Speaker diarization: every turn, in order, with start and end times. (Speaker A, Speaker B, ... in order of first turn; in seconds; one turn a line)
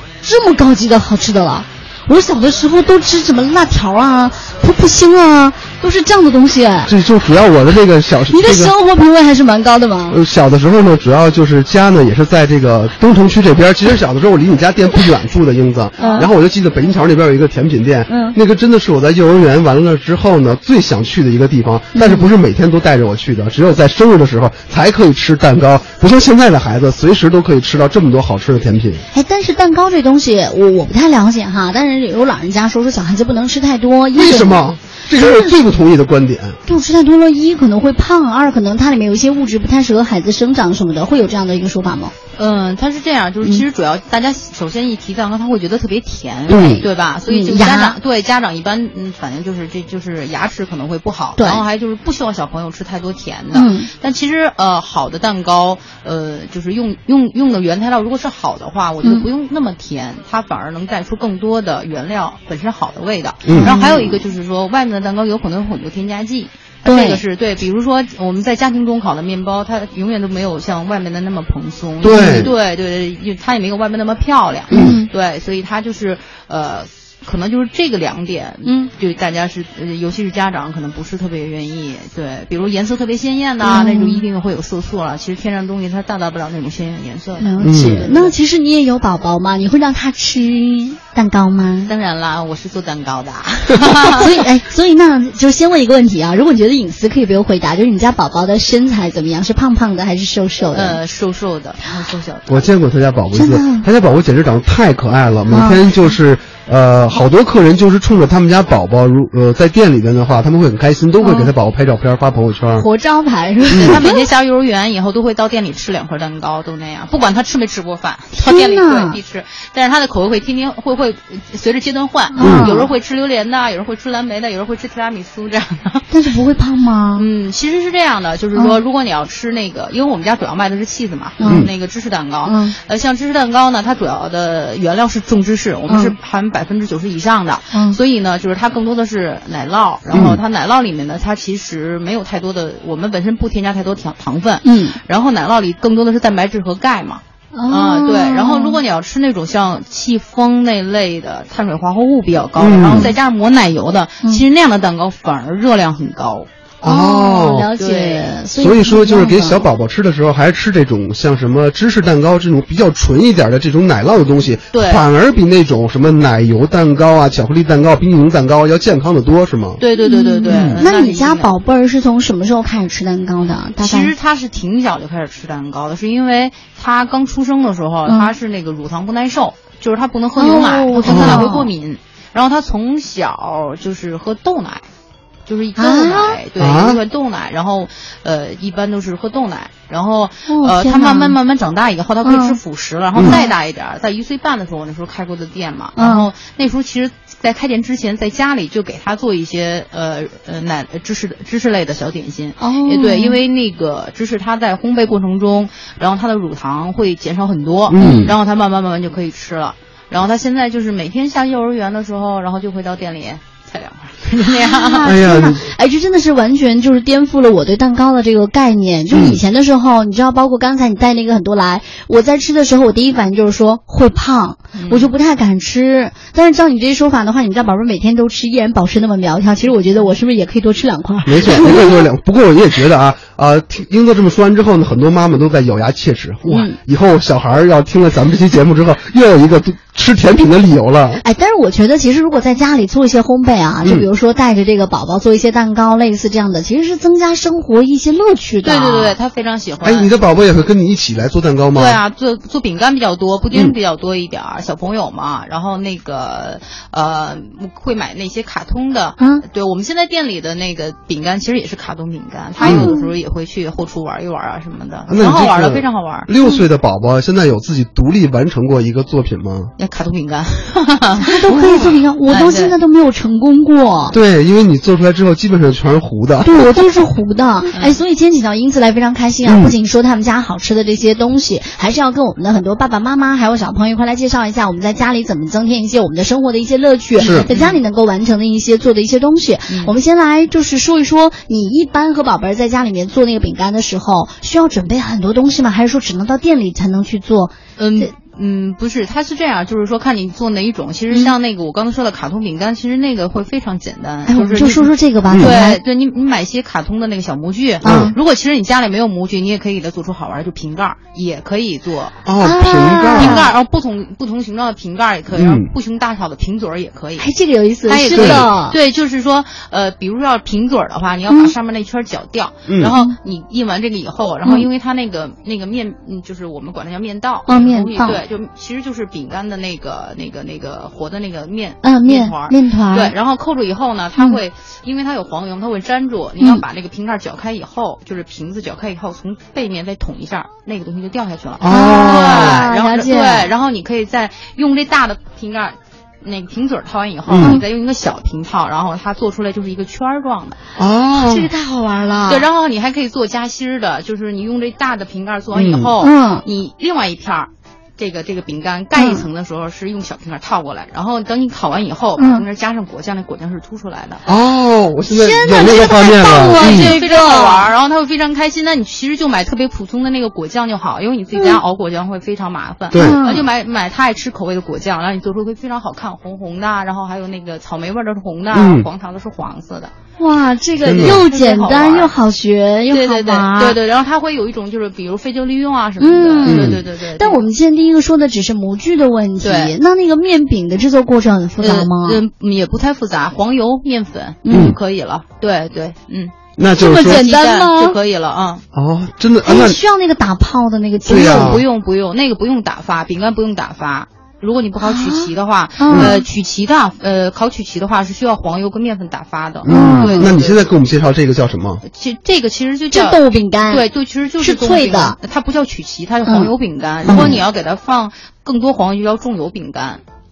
Speaker A: 0.2-6.9
Speaker B: 6.9-8.7
Speaker A: 8.3-10.2
Speaker B: 10.1-29.1
Speaker A: 16.0-16.3
Speaker A: 18.1-18.4
Speaker A: 21.9-22.3
Speaker A: 29.1-34.6
Speaker B: 34.2-36.6
Speaker A: 35.2-35.5
Speaker A: 36.7-42.1
Speaker C: 42.4-88.3
Speaker B: 46.5-46.9
Speaker A: 47.3-48.0
Speaker A: 51.4-51.6
Speaker A: 53.5-53.9
Speaker B: 63.5-63.8
Speaker A: 63.6-64.2
Speaker A: 66.9-67.2
Speaker B: 72.0-72.5
Speaker A: 72.1-72.5
Speaker A: 74.7-75.1
Speaker B: 74.7-75.0
Speaker A: 78.6-78.9
Speaker A: 83.6-84.2
Speaker A: 87.4-91.9
Speaker B: 87.6-88.0
Speaker C: 91.9-94.4
Speaker A: 94.1-101.0
Speaker C: 100.7-102.7
Speaker B: 102.5-112.8
Speaker A: 103.3-103.9
Speaker A: 105.5-105.9
Speaker A: 111.2-111.5
Speaker A: 112.8-114.2
Speaker B: 113.7-114.0
Speaker C: 113.8-126.1
Speaker A: 118.3-119.2
Speaker A: 122.3-122.9
Speaker B: 122.4-122.7
Speaker A: 126.1-127.3
Speaker C: 127.2-156.5
Speaker A: 131.4-131.7
Speaker B: 131.5-131.7
Speaker A: 132.4-132.8
Speaker A: 135.9-136.2
Speaker A: 137.7-138.0
Speaker B: 140.1-140.4
Speaker A: 144.6-145.0
Speaker A: 147.5-148.8
Speaker B: 152.6-153.1
Speaker B: 156.8-157.7
Speaker A: 156.8-159.6
Speaker C: 157.8-158.3
Speaker B: 158.6-169.8
Speaker C: 164.7-165.1
Speaker C: 169.8-171.5
Speaker A: 170.0-174.1
Speaker B: 170.5-170.8
Speaker C: 173.8-184.8
Speaker A: 178.1-178.3
Speaker A: 180.4-181.7
Speaker B: 181.1-181.5
Speaker C: 185.5-215.1
Speaker A: 185.8-186.4
Speaker B: 186.6-187.0
Speaker A: 190.5-191.4
Speaker A: 192.2-192.6
Speaker A: 193.2-193.5
Speaker A: 196.0-196.3
Speaker A: 202.6-203.4
Speaker B: 207.9-208.3
Speaker A: 208.0-208.3
Speaker A: 214.4-232.0
Speaker B: 215.0-215.7
Speaker B: 219.1-219.4
Speaker C: 224.8-225.1
Speaker B: 231.3-241.2
Speaker A: 236.5-236.8
Speaker A: 241.2-249.2
Speaker C: 248.6-250.1
Speaker B: 249.8-252.0
Speaker C: 251.8-266.3
Speaker A: 259.2-259.4
Speaker A: 262.6-263.1
Speaker B: 262.6-262.9
Speaker B: 265.1-269.7
Speaker C: 269.8-271.4
Speaker A: 271.2-274.2
Speaker B: 271.5-272.0
Speaker C: 272.3-272.7
Speaker B: 274.1-276.7
Speaker A: 276.4-298.1
Speaker B: 279.5-279.8
Speaker B: 287.2-287.5
Speaker C: 287.2-287.8
Speaker C: 289.7-289.9
Speaker C: 297.8-312.2
Speaker A: 304.3-305.8
Speaker B: 307.8-308.1
Speaker A: 307.8-308.2
Speaker B: 312.3-313.5
Speaker A: 312.4-313.5
Speaker C: 313.0-317.3
Speaker B: 315.3-315.7
Speaker A: 317.2-318.8
Speaker C: 317.9-350.6
Speaker B: 318.1-318.5
Speaker B: 322.7-322.9
Speaker A: 322.8-323.1
Speaker A: 327.5-328.2
Speaker A: 331.8-333.1
Speaker B: 341.6-342.6
Speaker A: 341.7-343.5
Speaker B: 347.3-347.6
Speaker A: 347.4-347.6
Speaker B: 350.8-351.5
Speaker A: 351.1-352.5
Speaker C: 352.3-364.2
Speaker B: 355.5-355.9
Speaker A: 356.0-356.4
Speaker A: 358.9-359.2
Speaker A: 362.2-362.4
Speaker B: 364.3-366.9
Speaker A: 365.1-367.7
Speaker C: 366.5-379.9
Speaker A: 371.3-371.6
Speaker B: 372.9-373.2
Speaker A: 372.9-373.4
Speaker B: 378.5-378.9
Speaker A: 380.2-383.8
Speaker B: 380.8-381.2
Speaker C: 380.9-382.1
Speaker C: 382.9-387.4
Speaker A: 386.0-392.2
Speaker B: 386.4-386.8
Speaker C: 389.4-389.8
Speaker C: 391.6-398.6
Speaker A: 394.4-394.8
Speaker B: 394.5-394.8
Speaker B: 396.6-397.2
Speaker A: 396.8-398.0
Speaker B: 398.7-399.8
Speaker A: 399.4-401.6
Speaker B: 401.1-401.6
Speaker C: 401.1-410.7
Speaker A: 404.8-406.2
Speaker B: 405.9-406.2
Speaker B: 409.6-411.8
Speaker A: 409.7-410.3
Speaker C: 411.9-420.0
Speaker A: 412.9-413.9
Speaker A: 414.4-415.2
Speaker A: 416.2-416.5
Speaker A: 417.1-417.4
Speaker B: 417.1-417.4